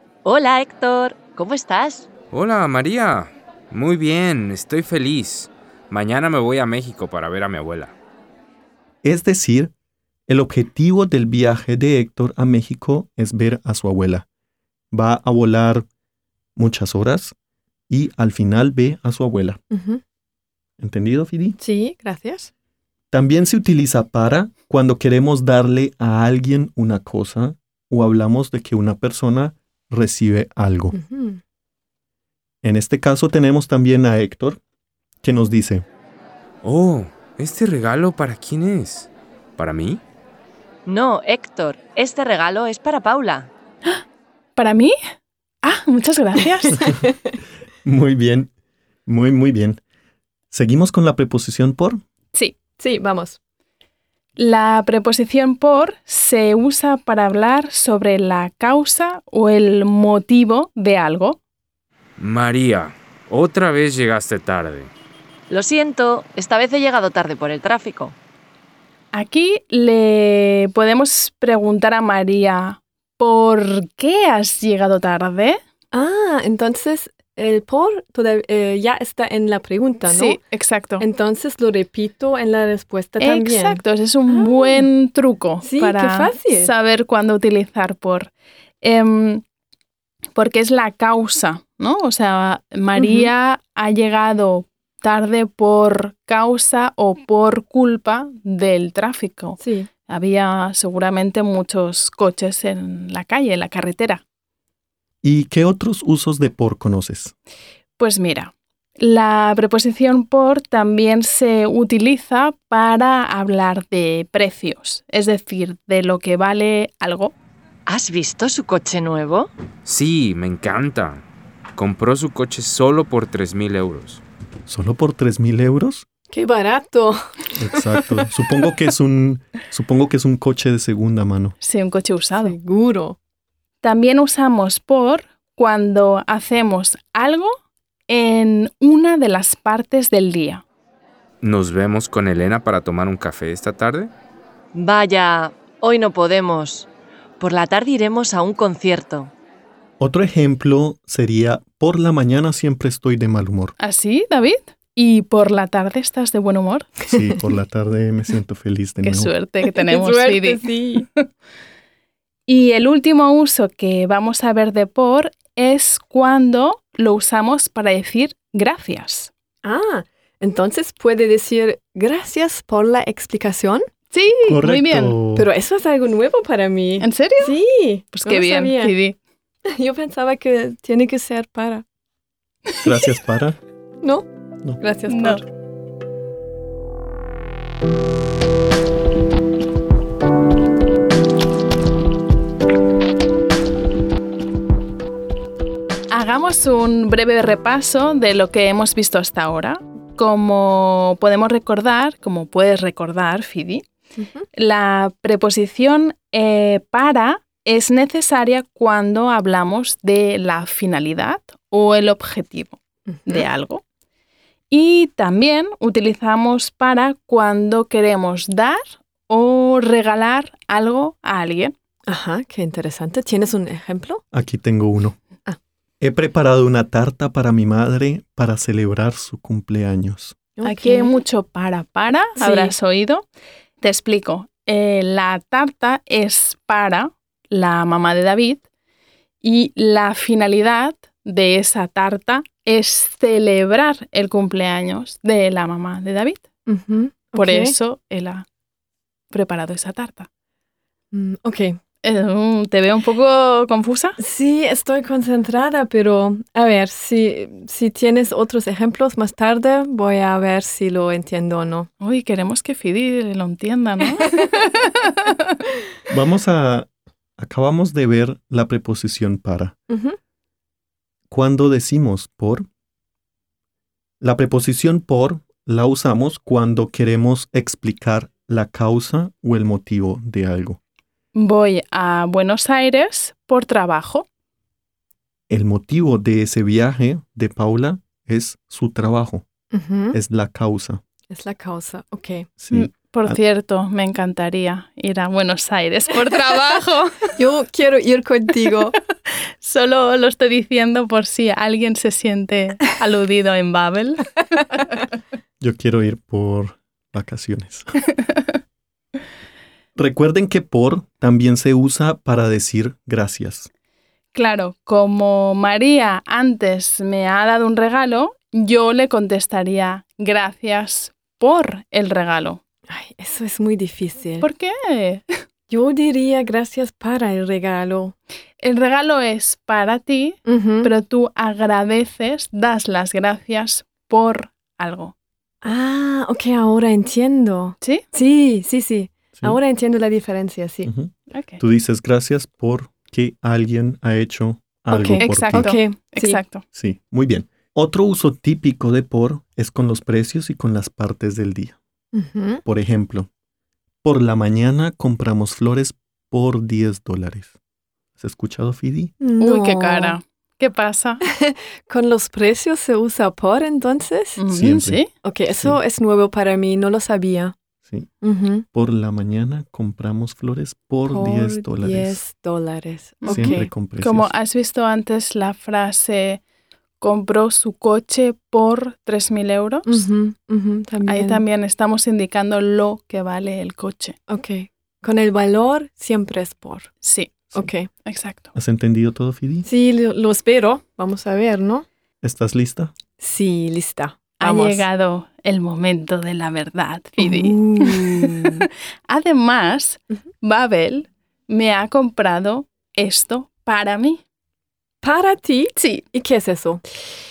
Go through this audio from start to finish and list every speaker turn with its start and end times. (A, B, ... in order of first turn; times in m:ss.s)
0:00.2-0:02.1 A
0:02.3-0:07.9 B
0:09.0-0:09.7 C
0:10.3-0:14.3 C
0:14.9-0:15.9 C
0:16.6-0:17.4 C
0:17.9-0:19.6 C
0:19.7-0:20.0 D
0:20.8-0:21.6 C
0:21.6-0:22.5 D
0:23.1-0:31.0 C
0:30.9-0:31.4 D
0:32.6-0:34.6 C
0:35.2-0:35.9 C
0:36.6-0:40.0 B
0:40.9-0:43.5 A
0:44.6-0:44.9 E
0:45.6-0:46.9 E
0:47.8-0:48.5 C
0:49.1-0:49.8 C
0:50.5-0:52.0 C
0:52.3-0:52.6 E
0:52.8-0:53.4 D
0:54.4-1:01.4 E
1:02.2-1:04.9 B
1:05.5-1:08.2 A
1:09.1-1:15.6 E
1:15.9-1:20.4 D
1:20.1-1:21.1 E
1:21.0-1:24.9 D
1:23.2-1:29.4 E
1:25.6-1:26.7 D
1:30.4-1:44.2 E
1:33.0-1:33.3 D
1:39.6-1:39.9 D
1:45.2-1:47.4 C
1:48.0-1:57.4 E
1:57.9-1:59.5 A
1:59.8-2:01.2 B
2:01.8-2:04.2 B
2:04.7-2:06.1 C
2:06.3-2:08.3 D
2:07.6-2:11.6 C
2:11.6-2:12.6 E
2:12.4-2:13.2 D
2:13.8-2:17.5 E
2:18.1-2:20.6 E
2:21.4-2:24.1 B
2:24.7-2:26.9 A
2:27.4-2:29.3 A
2:30.0-2:33.7 C
2:33.8-2:37.0 E
2:37.1-2:39.3 C
2:39.0-2:41.0 E
2:39.6-2:41.1 D
2:42.5-2:49.3 E
2:49.6-2:53.9 D
2:54.1-2:55.2 E
2:54.4-2:55.5 C
2:55.3-2:58.9 D
2:57.0-2:57.6 E
2:58.1-2:59.2 E
2:59.7-3:01.8 D
3:02.8-3:03.6 C
3:04.0-3:04.3 D
3:04.8-3:05.4 D
3:05.1-3:05.4 E
3:16.1-3:23.8 E
3:24.2-3:24.5 D
3:24.6-3:33.8 E
3:33.1-3:33.5 D
3:34.7-3:41.7 E
3:42.1-3:44.2 D
3:44.3-3:45.2 C
3:46.0-3:50.4 C
3:50.6-3:51.2 D
3:50.6-3:53.3 E
3:52.4-3:52.7 D
3:53.8-3:58.6 E
3:59.4-4:06.4 E
4:06.7-4:07.8 D
4:07.4-4:08.5 E
4:09.3-4:10.3 E
4:11.1-4:11.8 D
4:12.0-4:14.2 E
4:14.2-4:21.9 D
4:22.0-4:25.4 E
4:26.1-4:29.8 C
4:29.9-4:30.2 D
4:31.3-4:32.7 C
4:34.2-4:40.8 C
4:41.4-4:44.2 E
4:45.5-4:49.5 C
4:49.7-4:50.2 D
4:50.1-4:51.0 C
4:51.3-4:52.5 D
4:52.6-4:53.4 C
4:52.7-4:57.3 E
4:57.4-4:59.0 D
4:59.6-5:04.9 E
5:05.6-5:07.9 C
5:10.0-5:13.7 C
5:14.3-5:22.6 E
5:22.9-5:24.5 D
5:24.4-5:25.2 E
5:25.7-5:28.2 D
5:28.6-5:35.1 E
5:30.5-5:30.9 D
5:35.6-5:40.9 D
5:40.8-5:45.7 C
5:41.3-5:41.6 E
5:44.9-5:46.4 D
5:45.2-5:46.6 E
5:46.7-5:51.8 C
5:52.1-5:52.6 D
5:52.6-5:53.3 C
5:54.0-5:57.6 C
5:58.2-5:59.1 C
5:59.2-6:00.2 D
5:59.4-6:01.2 E
6:01.2-6:04.4 D
6:04.4-6:05.1 E
6:04.5-6:05.8 C
6:05.2-6:07.6 D
6:08.2-6:08.7 D
6:08.7-6:12.2 C
6:11.1-6:13.7 D
6:13.2-6:16.4 E
6:13.3-6:14.3 C
6:17.0-6:20.0 E
6:19.9-6:21.4 D
6:21.1-6:24.2 E
6:24.3-6:26.9 D
6:27.0-6:28.5 E
6:27.5-6:27.9 D
6:28.5-6:29.7 C
6:29.6-6:31.8 D
6:32.2-6:33.0 C
6:33.2-6:34.8 D
6:34.4-6:44.2 E
6:37.2-6:38.6 D
6:45.0-6:46.8 D
6:45.8-6:46.0 E